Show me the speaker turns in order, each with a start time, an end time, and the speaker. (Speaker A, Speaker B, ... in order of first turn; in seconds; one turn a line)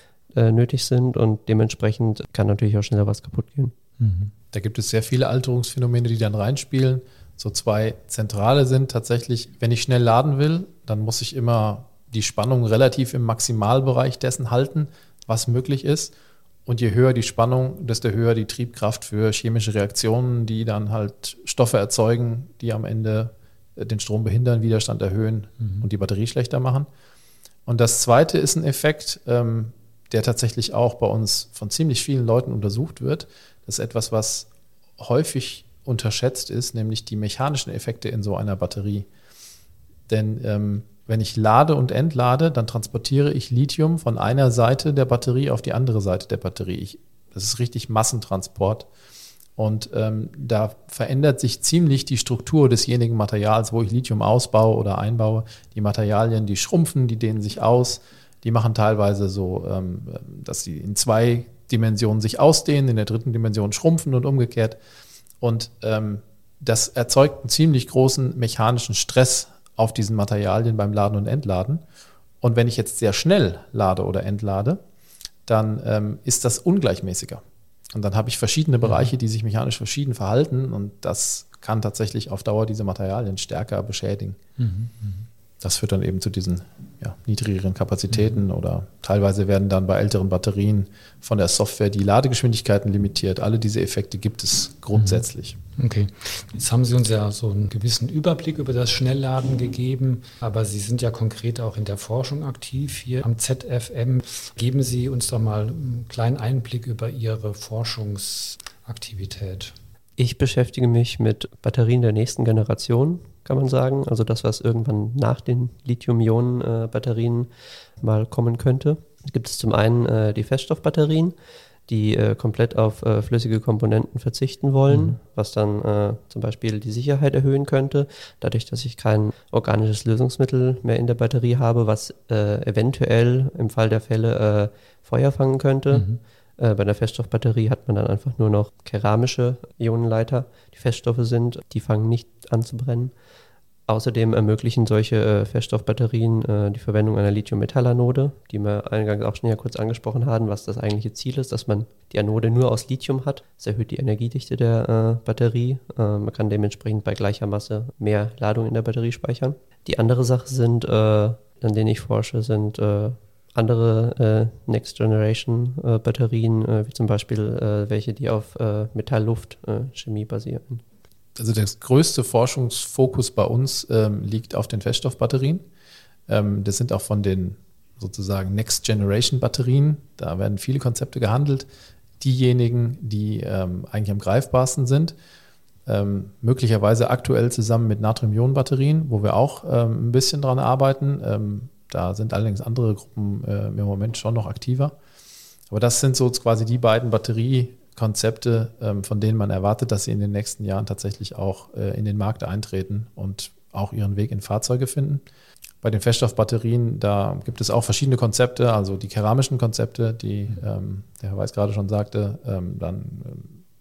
Speaker A: 0.3-3.7
Speaker B: 4.0-4.3
Speaker C: 4.5-16.1
Speaker C: 16.7-26.9
Speaker C: 27.7-39.1
Speaker C: 40.1-48.9
Speaker C: 49.6-64.8
Speaker C: 65.4-71.8
Speaker C: 72.4-74.8
Speaker C: 75.5-84.4
Speaker B: 84.6-85.3
Speaker C: 85.6-95.6
Speaker B: 95.0-95.2
Speaker B: 95.8-109.7
Speaker A: 110.2-121.3
Speaker A: 121.9-143.1
Speaker B: 124.9-125.2
Speaker B: 135.9-136.2
Speaker A: 143.9-170.8
Speaker C: 171.4-175.7
Speaker C: 176.3-181.7
Speaker C: 182.2-185.2
Speaker C: 185.9-194.9
Speaker C: 195.7-205.2
Speaker C: 205.8-213.6